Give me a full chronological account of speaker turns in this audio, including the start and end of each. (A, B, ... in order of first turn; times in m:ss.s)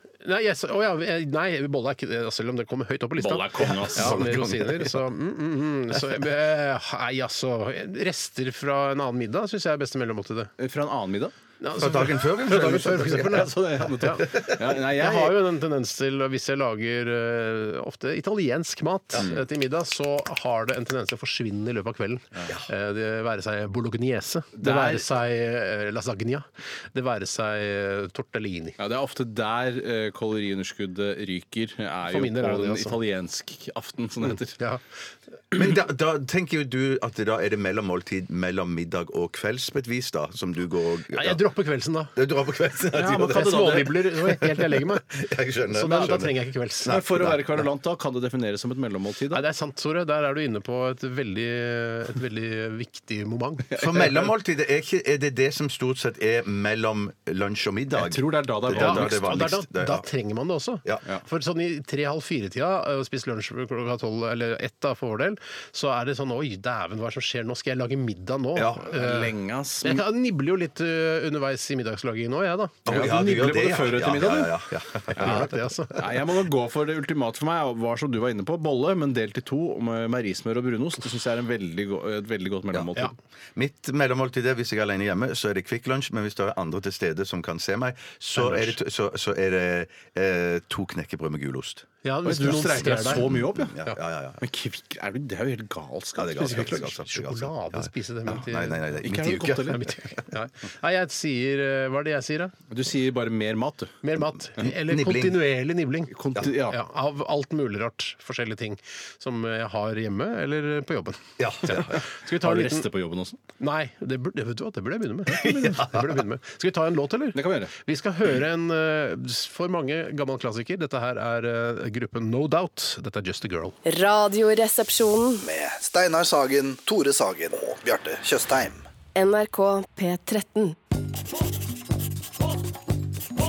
0:00.2-0:10.5 A
0:03.2-0:04.9 B
0:03.7-0:04.7 C
0:10.6-0:11.3 B
0:11.6-0:14.3 A
0:11.8-0:13.5 C
0:13.0-0:15.5 B
0:14.2-0:14.5 C
0:14.9-0:28.8 A
0:24.6-0:25.1 B
0:28.8-0:34.6 B
0:32.1-0:33.0 A
0:34.3-0:34.8 A
0:35.5-0:41.4 C
0:41.1-0:42.1 A
0:42.2-0:47.7 C
0:42.9-0:44.1 B
0:43.2-0:45.1 A
0:45.7-0:47.0 A
0:46.9-0:49.4 B
0:49.3-0:53.7 A
0:53.7-0:54.3 B
0:53.8-1:00.1 C
0:58.0-0:59.4 B
0:58.7-1:12.9 A
1:08.6-1:08.9 C
1:08.9-1:10.0 B
1:12.9-1:14.6 B
1:12.9-1:15.5 C
1:15.1-1:23.1 B
1:15.2-1:16.1 A
1:23.6-1:31.9 C
1:28.4-1:28.8 A
1:32.0-1:33.3 A
1:32.2-1:33.8 B
1:32.4-1:34.4 C
1:34.4-1:36.9 B
1:36.2-1:40.1 C
1:36.4-1:38.9 A
1:39.0-1:39.9 B
1:39.7-1:42.5 A
1:42.7-1:44.0 B
1:44.0-1:52.9 A
1:44.6-1:45.4 C
1:46.1-1:46.8 B
1:51.4-1:52.0 C
1:51.7-1:53.4 B
1:53.6-2:03.8 A
1:55.3-1:56.1 C
1:57.4-1:57.7 B
2:03.9-2:05.4 D
2:05.4-2:08.8 E
2:09.2-2:10.8 D